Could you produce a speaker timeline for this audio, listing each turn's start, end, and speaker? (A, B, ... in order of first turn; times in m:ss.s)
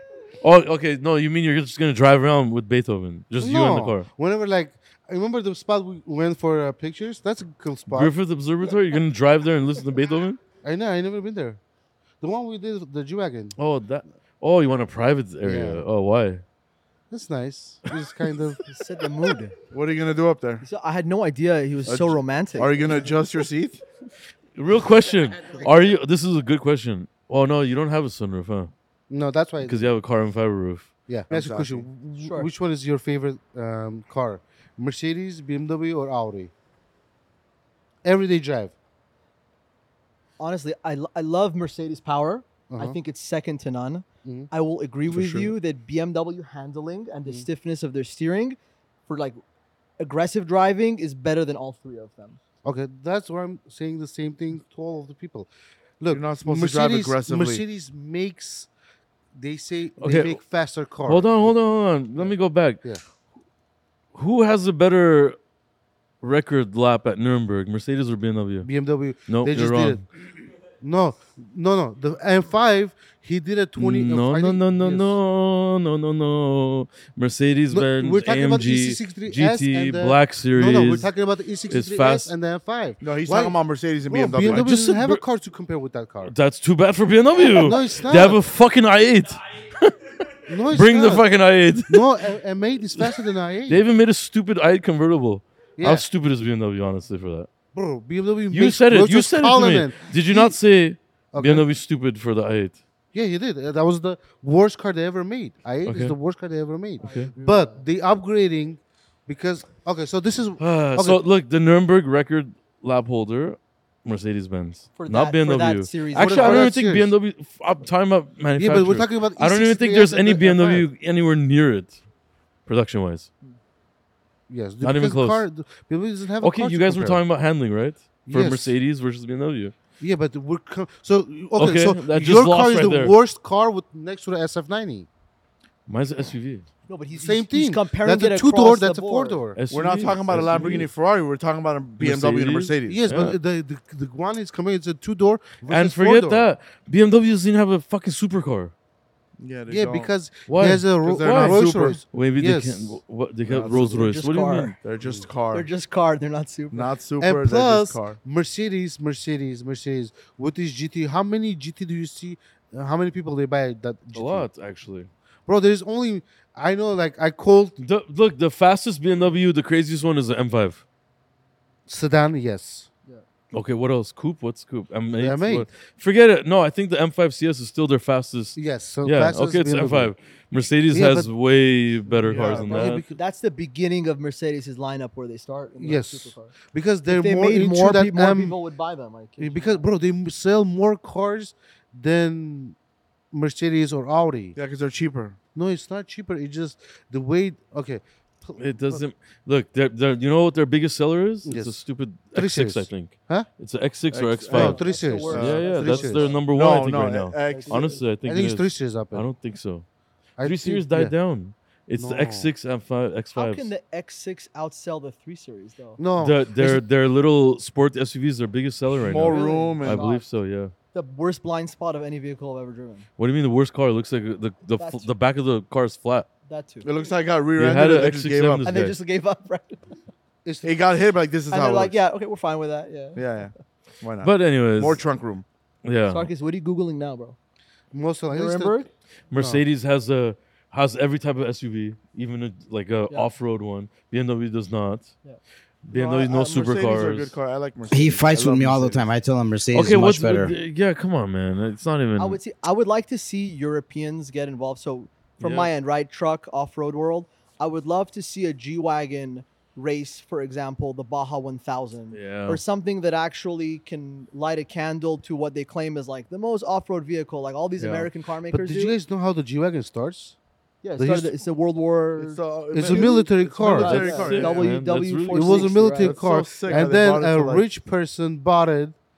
0:00.4-0:04.1 A
0:03.4-0:08.1 B
0:07.9-0:10.4 A
0:10.6-0:11.6 B
0:12.2-0:13.6 B
0:13.6-0:16.4 A
0:15.4-0:15.8 B
0:17.1-0:18.6 B
0:18.7-0:19.6 C
0:19.7-0:20.6 D
0:20.6-0:23.1 C
0:21.9-0:23.8 D
0:24.6-0:28.7 A
0:29.1-0:30.0 B
0:29.6-0:30.9 A
0:31.1-0:36.5 B
0:31.3-0:31.9 D
0:32.2-0:32.5 C
0:38.0-0:38.7 B
0:40.4-0:48.6 C
0:42.7-0:43.0 B
0:45.1-0:45.5 A
0:49.1-0:49.4 C
0:50.0-0:52.4 C
0:52.6-0:55.5 B
0:56.0-0:58.7 B
0:56.1-0:57.6 D
0:59.4-1:01.6 B
1:00.0-1:00.4 A
1:01.0-1:02.8 A
1:04.1-1:05.4 A
1:06.2-1:08.7 A
1:08.6-1:10.1 B
1:09.3-1:10.0 A
1:10.8-1:15.2 B
1:13.8-1:21.1 A
1:17.7-1:26.3 B
1:21.7-1:22.3 A
1:23.0-1:24.7 D
1:24.6-1:25.2 A
1:26.3-1:30.0 A
1:27.5-1:28.4 B
1:30.5-1:31.3 B
1:30.7-1:32.1 A
1:31.9-1:33.8 B
1:33.0-1:37.5 A
1:35.8-1:36.0 B
1:37.7-1:40.6 B
1:38.5-1:42.8 A
1:41.3-1:41.7 B
1:43.1-1:51.2 B
1:45.9-1:46.2 A
1:47.0-1:47.8 C
1:47.0-1:47.3 A
1:50.6-2:02.0 A
1:55.0-1:56.7 C
1:56.2-1:57.1 B
1:58.6-2:00.9 B
2:02.7-2:03.3 A
2:04.5-2:07.2 B
2:04.8-2:05.4 A
2:06.4-2:09.7 A
2:08.3-2:08.8 B
2:10.0-2:15.1 B
2:11.6-2:13.2 A
2:15.9-2:16.7 A
2:16.9-2:19.4 C
2:17.1-2:19.6 B
2:19.6-2:20.9 A
2:19.7-2:23.0 D
2:22.0-2:23.4 A
2:22.8-2:26.5 B
2:25.7-2:28.7 A
2:29.4-2:30.1 D
2:29.7-2:33.0 B
2:30.5-2:34.7 A
2:31.0-2:32.0 D
2:33.5-2:34.1 D
2:33.7-2:34.8 C
2:34.8-2:35.7 D
2:35.5-2:36.9 C
2:36.7-2:38.2 D
2:37.2-2:44.5 B
2:44.1-2:45.1 A
2:45.5-2:47.8 B
2:47.8-2:50.8 A
2:51.9-2:52.9 B
2:53.5-3:03.0 A
2:55.2-2:55.7 B
2:58.6-3:00.1 B
3:00.9-3:01.3 B
3:02.2-3:02.7 D
3:02.3-3:03.2 B
3:02.4-3:06.5 C
3:05.8-3:08.6 B
3:07.1-3:09.8 C
3:09.4-3:12.8 B
3:13.3-3:14.6 B
3:14.6-3:15.4 D
3:15.6-3:19.0 B
3:18.6-3:29.8 A
3:21.4-3:21.8 B
3:22.3-3:23.5 B
3:24.1-3:25.7 D
3:24.5-3:26.4 C
3:24.5-3:26.3 B
3:26.4-3:28.0 D
3:27.5-3:28.0 C
3:28.2-3:29.3 B
3:30.4-3:31.2 B
3:30.4-3:33.7 A
3:32.0-3:32.5 B
3:33.4-3:36.0 C
3:36.0-3:36.8 B
3:36.2-3:40.7 A
3:38.9-3:40.1 D
3:39.3-3:40.2 C
3:40.9-3:43.0 C
3:43.2-3:46.3 A
3:44.8-3:45.1 C
3:46.5-3:46.9 C
3:46.8-3:48.7 D
3:47.6-3:49.0 A
3:48.6-3:49.8 C
3:50.4-3:50.8 B
3:50.6-3:52.0 D
3:51.5-3:53.2 C
3:53.2-3:55.4 D
3:54.2-3:55.0 A
3:55.8-3:56.3 A
3:56.1-3:57.4 C
3:57.9-3:59.6 B
3:58.3-3:58.9 C
3:59.3-4:05.1 A
4:05.8-4:07.4 A
4:05.9-4:09.0 D
4:07.9-4:10.6 E
4:09.7-4:12.4 A
4:12.2-4:29.0 C
4:15.4-4:15.7 A
4:22.1-4:22.6 A
4:27.8-4:28.1 A
4:28.5-4:30.4 B
4:30.8-4:36.9 C
4:31.0-4:31.3 B
4:32.2-4:34.8 D
4:32.7-4:34.2 B
4:34.0-4:35.8 A
4:35.3-4:39.0 B
4:36.0-4:37.7 D